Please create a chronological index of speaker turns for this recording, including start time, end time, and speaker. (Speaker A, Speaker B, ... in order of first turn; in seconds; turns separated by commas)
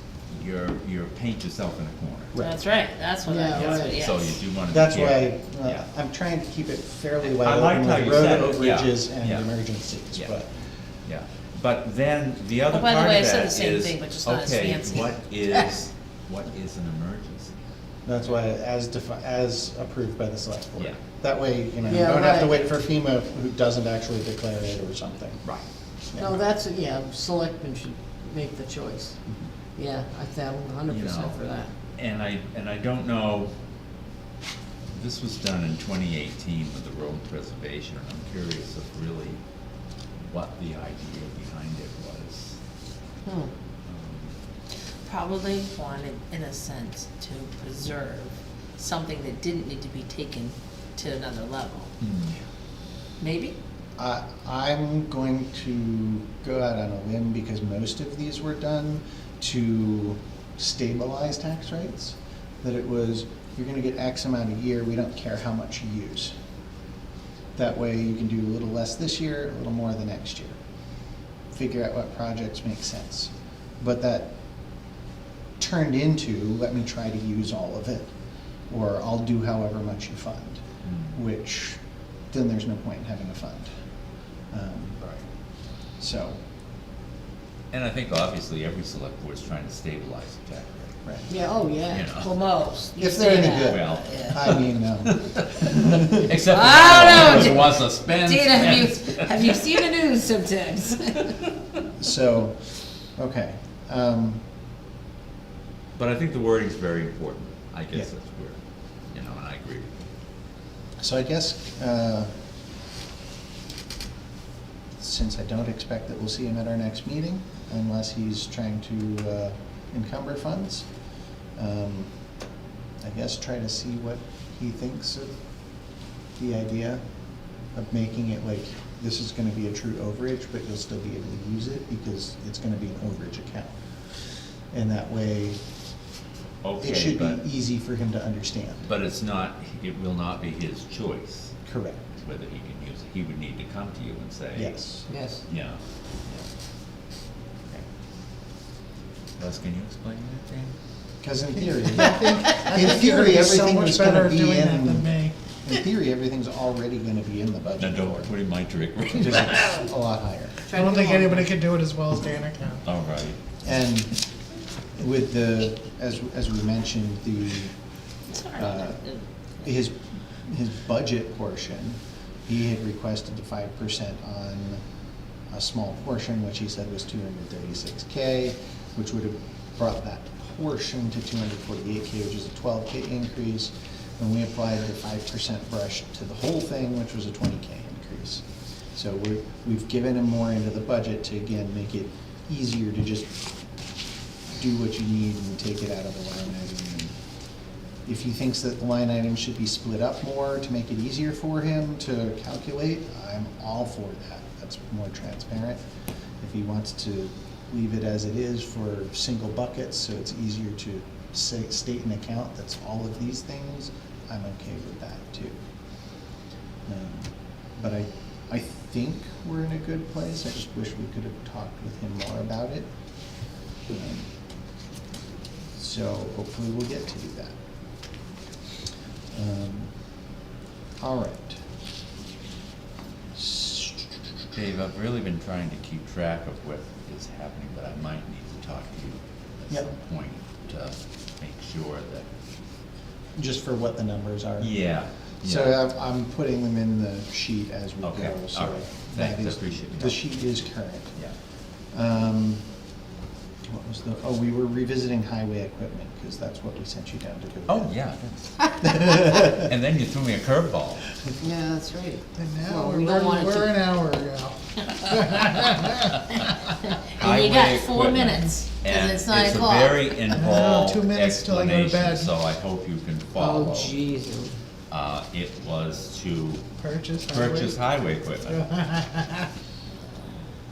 Speaker A: 0.3-2.3, Speaker B: 2.4-4.4, Speaker C: 3.3-4.0, Speaker A: 3.5-5.8, Speaker D: 4.7-10.5, Speaker A: 7.2-9.5, Speaker A: 11.1-17.5, Speaker B: 12.7-15.7, Speaker D: 18.1-25.4, Speaker C: 21.8-22.6, Speaker D: 26.1-26.4, Speaker C: 26.2-29.2, Speaker C: 29.8-31.7, Speaker A: 30.9-31.4, Speaker A: 32.0-33.5, Speaker A: 34.9-39.4, Speaker A: 40.3-42.6, Speaker C: 43.2-43.5, Speaker A: 43.9-44.3, Speaker B: 45.0-51.9, Speaker A: 52.0-52.3, Speaker B: 53.2-53.6, Speaker D: 54.0-66.3, Speaker D: 67.5-70.6, Speaker D: 71.5-74.3, Speaker D: 75.6-78.1, Speaker D: 78.7-80.6, Speaker A: 80.8-81.2, Speaker D: 81.1-81.8, Speaker D: 82.3-83.7, Speaker D: 84.5-85.0, Speaker D: 86.0-86.4, Speaker A: 87.7-90.9, Speaker D: 91.0-91.3, Speaker C: 91.3-92.4, Speaker A: 91.9-92.3, Speaker B: 92.3-94.4, Speaker D: 93.0-96.3, Speaker A: 93.7-94.6, Speaker A: 95.2-99.7, Speaker B: 96.4-101.4, Speaker D: 102.0-102.6, Speaker D: 103.2-104.4, Speaker A: 106.0-108.6, Speaker A: 109.1-110.1, Speaker D: 111.0-112.3, Speaker D: 115.0-120.9, Speaker D: 121.6-122.1, Speaker D: 123.0-125.3, Speaker D: 126.4-127.0, Speaker D: 127.8-133.8, Speaker D: 134.7-135.6, Speaker A: 136.6-137.4, Speaker D: 136.8-138.9, Speaker A: 138.8-141.6, Speaker D: 141.7-142.1, Speaker A: 142.2-144.8, Speaker D: 144.6-145.1, Speaker C: 145.1-145.4, Speaker A: 145.5-146.5, Speaker A: 149.4-150.7, Speaker D: 151.2-158.3, Speaker E: 152.0-155.3, Speaker A: 157.8-159.9, Speaker D: 159.1-160.6, Speaker E: 160.7-162.8, Speaker C: 160.7-161.5, Speaker A: 162.8-163.4, Speaker D: 163.6-164.1, Speaker D: 165.0-167.7, Speaker B: 168.3-169.2, Speaker D: 168.6-169.0, Speaker D: 169.6-174.8, Speaker D: 175.5-188.4, Speaker D: 188.9-193.4, Speaker D: 194.5-197.1, Speaker D: 198.1-205.8, Speaker D: 206.4-215.6, Speaker D: 216.9-222.9, Speaker D: 223.9-224.3, Speaker D: 225.8-227.6, Speaker D: 229.3-229.9, Speaker D: 231.0-231.6, Speaker D: 233.3-234.1, Speaker A: 234.5-242.3, Speaker D: 243.4-244.8, Speaker A: 244.6-245.8, Speaker D: 245.4-251.2, Speaker A: 248.0-250.2, Speaker D: 251.9-252.6, Speaker D: 253.7-257.9, Speaker A: 257.7-261.0, Speaker D: 258.8-259.7, Speaker C: 261.4-263.9, Speaker E: 262.3-266.6, Speaker B: 267.1-270.1, Speaker A: 267.2-274.0, Speaker E: 270.3-272.3, Speaker C: 273.4-274.6, Speaker A: 274.9-276.6, Speaker E: 276.8-277.8, Speaker A: 277.3-278.7, Speaker E: 278.5-279.5